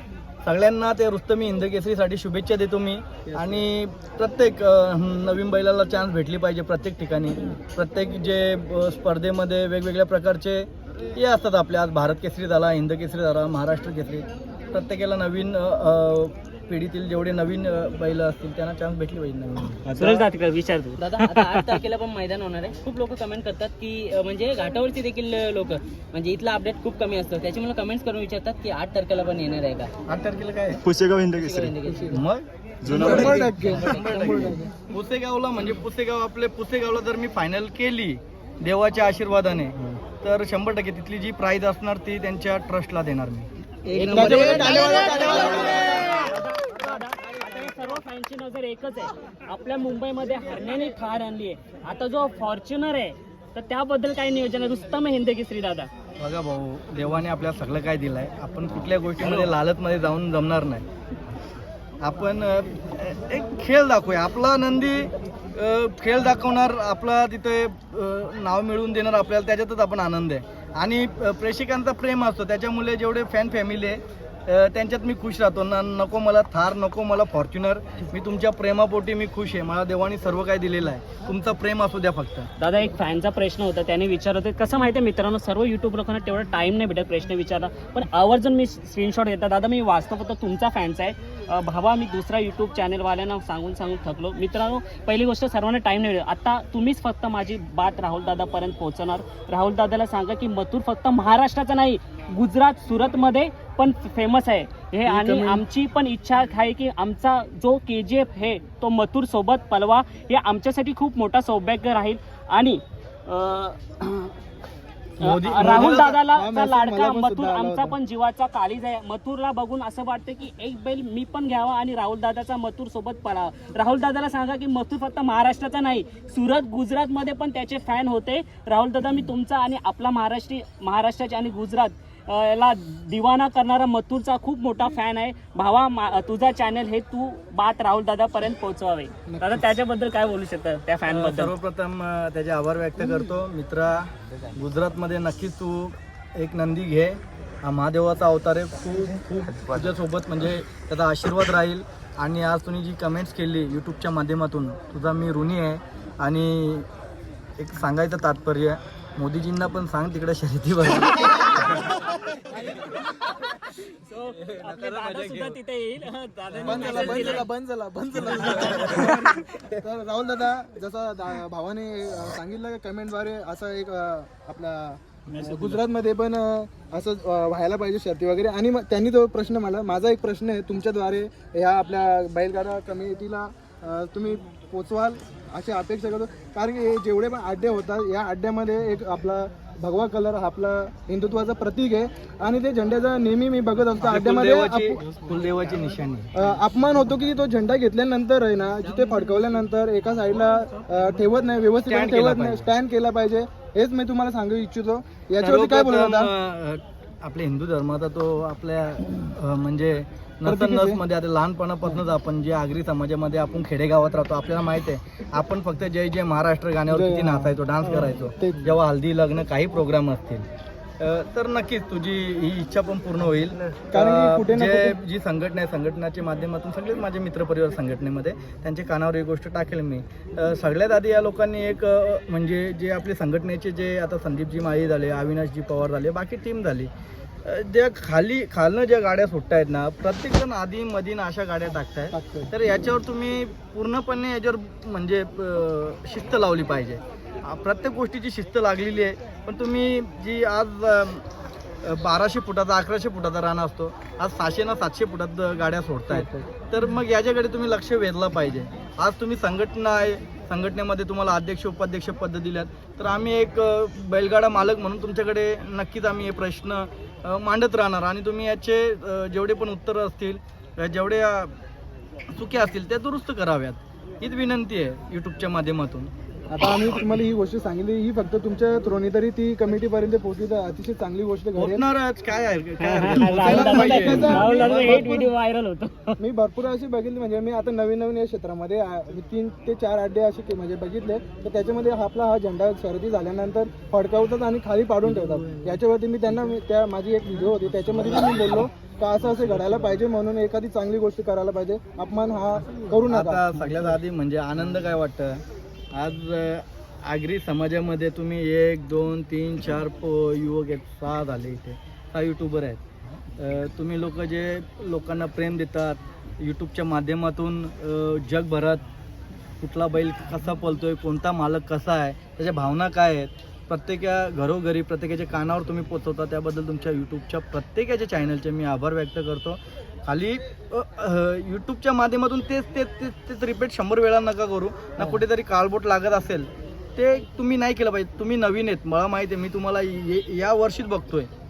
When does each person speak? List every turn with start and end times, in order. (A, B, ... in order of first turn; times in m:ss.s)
0:00.4-0:19.9 A
0:19.9-0:20.3 B
0:20.0-0:21.7 C
0:21.0-0:29.9 D
0:30.1-0:30.8 A
0:30.8-0:31.8 B
0:31.4-0:32.2 D
0:32.1-0:32.5 A
0:32.8-0:33.7 B
0:32.9-0:34.7 E
0:33.0-0:43.5 A
0:33.6-0:34.0 D
0:43.9-0:46.0 D
0:44.0-0:55.9 C
0:44.0-0:45.3 E
0:56.2-1:00.8 A
1:02.0-1:22.5 A
1:22.6-1:54.3 C
1:45.1-1:45.6 E
1:55.2-1:56.1 A
1:55.2-2:21.5 C
1:55.6-1:58.0 E
2:19.3-2:19.7 E
2:21.1-2:36.9 A
2:37.6-2:41.8 A
2:43.8-2:47.5 C
2:44.4-2:45.6 A
2:46.6-3:15.0 E
2:48.7-2:49.1 A
2:55.3-2:55.8 B
3:14.0-3:16.3 A
3:16.4-3:26.3 E
3:21.8-3:22.7 A
3:25.4-3:40.5 A
3:30.5-3:31.0 E
3:36.9-3:38.8 E
3:41.0-3:56.9 A
3:43.9-3:45.0 E
3:57.4-4:11.3 A
4:02.1-4:02.5 E
4:11.8-4:31.5 A
4:16.1-4:16.5 E
4:32.3-4:36.1 A
4:36.5-4:41.8 E
4:41.6-4:45.1 A
4:42.8-4:46.2 C
4:43.1-4:45.3 E
4:46.2-5:04.0 E
5:03.0-5:12.8 A
5:13.4-5:18.8 A
5:19.6-5:41.3 A